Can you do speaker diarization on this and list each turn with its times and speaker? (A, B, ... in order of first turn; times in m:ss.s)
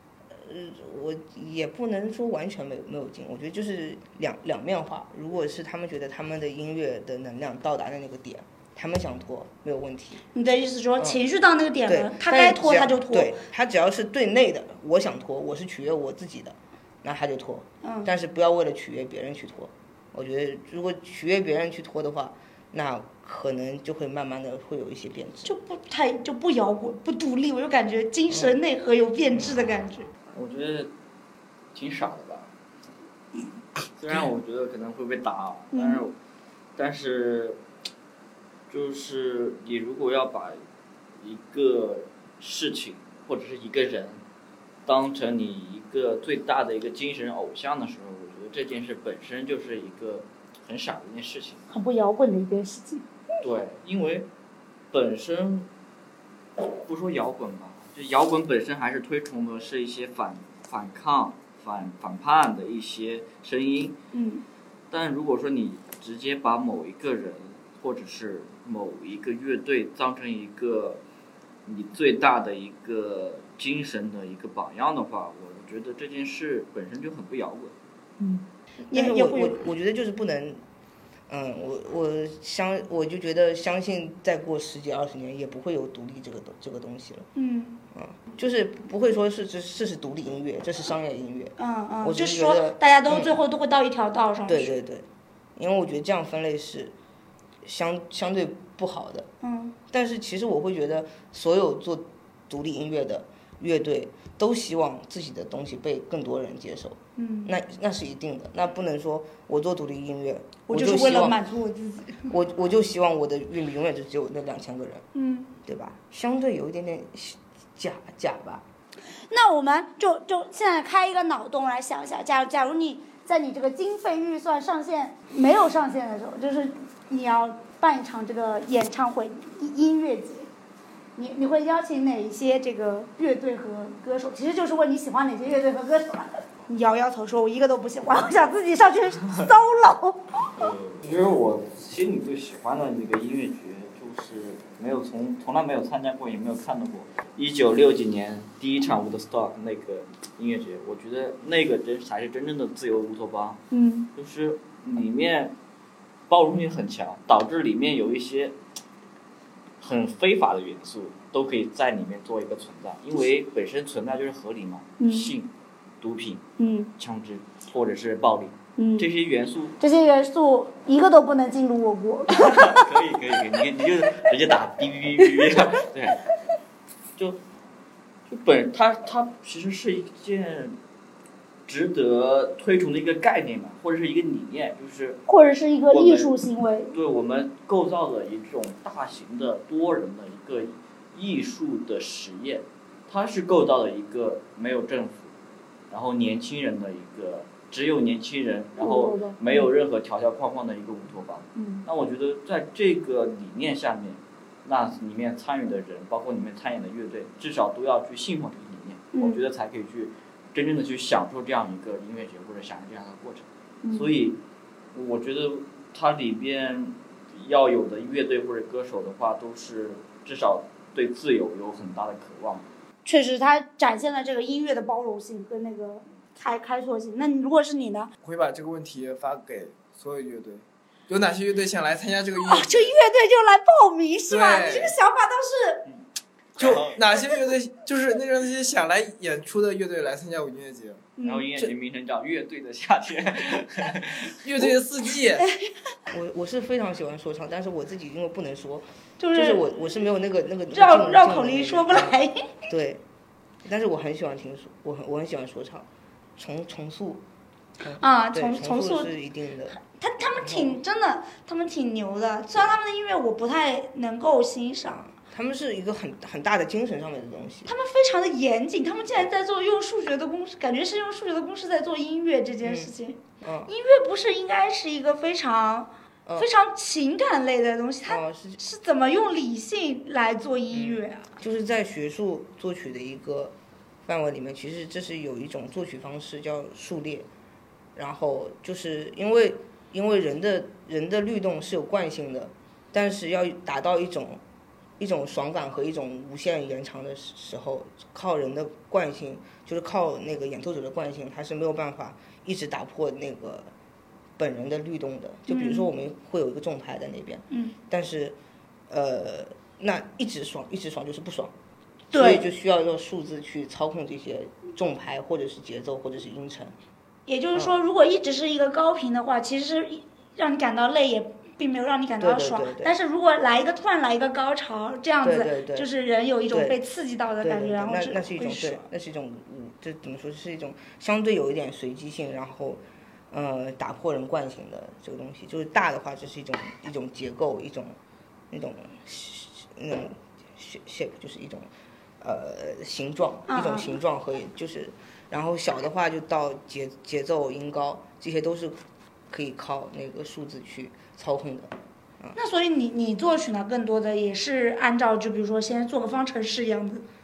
0:00.3-0:10.2 A
0:10.3-0:13.4 B
0:11.8-0:25.6 A
0:17.8-0:18.1 B
0:25.4-0:30.1 B
0:28.3-0:28.6 A
0:30.3-0:30.9 C
0:31.7-0:32.5 C
0:34.0-0:36.1 C
0:35.7-0:36.0 B
0:36.8-0:37.6 C
0:38.7-0:40.6 C
0:41.2-0:44.2 C
0:44.8-0:51.6 C
0:51.7-0:53.0 B
0:53.4-0:54.3 C
0:54.9-0:55.7 C
0:56.8-1:04.0 C
1:04.1-1:04.4 B
1:04.9-1:11.0 C
1:11.6-1:17.7 C
1:18.2-1:19.6 B
1:18.9-1:20.6 A
1:21.3-1:27.3 A
1:27.4-1:27.8 B
1:27.9-1:33.4 A
1:31.6-1:34.7 B
1:34.4-1:36.9 A
1:37.6-1:39.3 A
1:39.4-1:39.7 B
1:39.9-1:51.4 A
1:47.2-1:47.5 B
1:50.7-1:52.3 B
1:52.3-1:55.0 A
1:55.1-1:55.5 B
1:55.6-1:58.6 A
1:59.3-2:10.5 B
2:11.2-2:20.5 B
2:20.5-2:33.6 C
2:33.7-2:34.1 B
2:34.2-2:35.6 C
2:36.3-2:38.6 C
2:39.8-2:46.4 C
2:45.0-2:45.3 B
2:46.6-2:46.9 B
2:47.0-2:49.8 C
2:48.8-2:49.0 B
2:49.8-2:52.9 B
2:52.3-2:56.2 C
2:58.3-3:00.8 C
3:01.7-3:05.2 C
3:05.3-3:06.9 B
3:05.9-3:06.4 C
3:06.9-3:15.3 C
3:15.9-3:34.4 C
3:18.8-3:19.7 B
3:21.6-3:21.8 B
3:29.1-3:29.4 B
3:33.8-3:34.1 B
3:34.9-3:42.7 C
3:43.0-3:48.1 B
3:48.2-3:52.9 D
3:52.4-3:55.8 B
3:54.3-3:55.0 D
3:56.6-3:57.0 C
3:56.6-4:01.7 D
4:01.2-4:01.5 B
4:01.2-4:04.4 C
4:04.4-4:05.5 D
4:06.1-4:12.1 A
4:09.2-4:09.6 B
4:10.7-4:12.5 B
4:12.7-4:13.0 A
4:13.6-4:17.2 A
4:17.8-4:19.8 A
4:18.0-4:19.1 B
4:19.7-4:25.1 B
4:20.4-4:20.8 A
4:25.2-4:27.7 A
4:27.6-4:41.3 B
4:32.6-4:33.7 A
4:38.1-4:38.6 A
4:40.7-4:47.3 A
4:47.9-4:54.4 A
4:55.0-5:03.7 A
5:04.4-5:08.4 A
5:05.5-5:05.9 B
5:07.5-5:07.8 B
5:08.9-5:11.5 A
5:12.1-5:12.4 B
5:12.1-5:16.7 A
5:17.3-5:28.8 B
5:22.2-5:22.9 A
5:25.2-5:25.9 A
5:26.5-5:26.8 A
5:27.4-5:37.9 A
5:38.5-5:41.7 A
5:42.2-5:52.4 A
5:43.5-5:43.9 B
5:52.3-5:57.0 B